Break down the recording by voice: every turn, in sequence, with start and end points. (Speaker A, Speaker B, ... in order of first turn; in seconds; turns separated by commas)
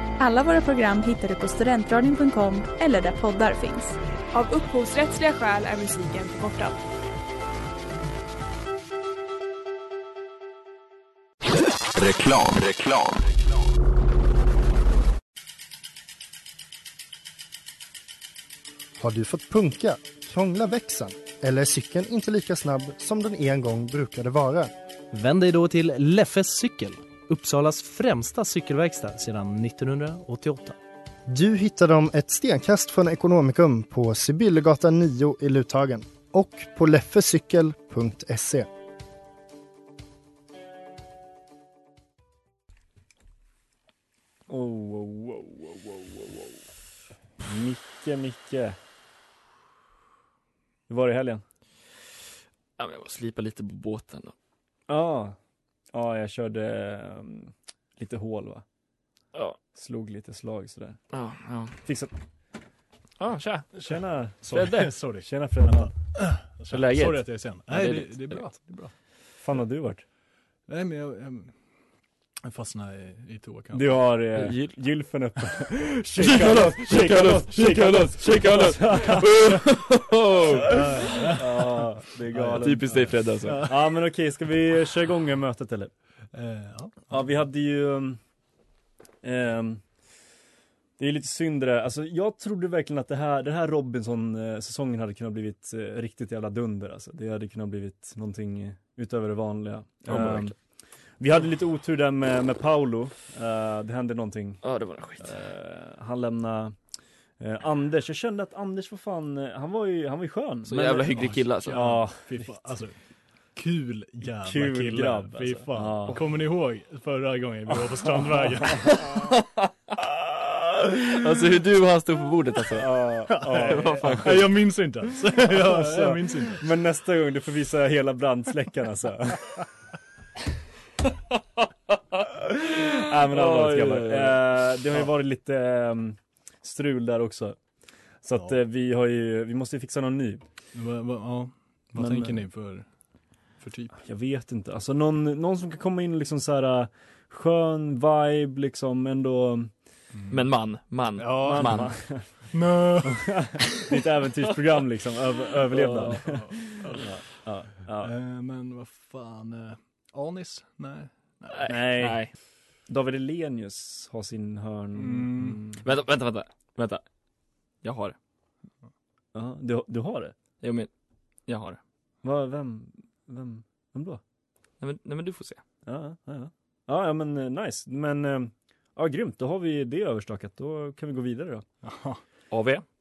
Speaker A: 0.2-4.0, Speaker B: 4.3-6.8, Speaker C: 19.0-24.7, Speaker D: 25.1-30.8, Speaker C: 31.3-38.7, Speaker E: 44.5-46.6, Speaker E: 47.4-48.8, Speaker E: 50.9-51.4, Speaker F: 52.8-54.3, Speaker E: 54.9-55.4, Speaker E: 55.9-58.6, Speaker E: 59.8-61.0, Speaker F: 61.1-61.8, Speaker E: 61.8-62.1, Speaker F: 63.2-63.7, Speaker G: 63.8-68.9, Speaker E: 63.9-65.9, Speaker F: 64.5-64.9, Speaker F: 66.7-68.4, Speaker E: 69.4-70.0, Speaker G: 70.7-71.5, Speaker G: 72.4-74.0, Speaker E: 73.7-79.3, Speaker F: 74.4-74.8, Speaker F: 76.3-81.2, Speaker G: 76.6-79.0, Speaker G: 80.5-83.8, Speaker E: 81.4-85.9, Speaker F: 82.6-83.6, Speaker G: 86.3-87.3, Speaker E: 87.1-88.2, Speaker E: 89.2-89.8, Speaker E: 91.0-100.5, Speaker F: 100.1-100.5, Speaker E: 101.2-104.7, Speaker F: 104.6-105.3, Speaker E: 105.2-106.8, Speaker E: 107.4-111.0, Speaker F: 110.7-111.9, Speaker G: 111.0-113.0, Speaker E: 111.7-112.7, Speaker G: 113.5-119.1, Speaker E: 114.4-116.2, Speaker E: 118.3-119.0, Speaker F: 118.9-119.6, Speaker F: 120.8-124.5, Speaker E: 122.8-124.2, Speaker G: 123.3-126.6, Speaker E: 125.5-129.6, Speaker E: 132.9-137.6, Speaker F: 133.3-134.4, Speaker E: 138.2-140.4, Speaker G: 138.3-138.6, Speaker G: 140.7-142.9, Speaker E: 142.0-142.4, Speaker G: 143.6-144.0, Speaker E: 144.0-149.7, Speaker G: 150.1-150.4, Speaker F: 150.3-152.0, Speaker G: 151.2-153.4, Speaker E: 151.4-158.1, Speaker F: 155.8-156.4, Speaker G: 156.0-157.0, Speaker G: 158.0-161.7, Speaker F: 161.5-162.3, Speaker E: 161.7-162.2, Speaker E: 162.9-165.8, Speaker G: 164.9-165.6, Speaker F: 165.8-167.0, Speaker F: 167.8-168.2, Speaker E: 169.3-170.3, Speaker F: 170.6-170.9, Speaker F: 171.5-171.8, Speaker E: 172.2-174.2, Speaker F: 174.8-175.6, Speaker E: 175.9-181.7, Speaker G: 181.8-182.2, Speaker F: 182.5-182.8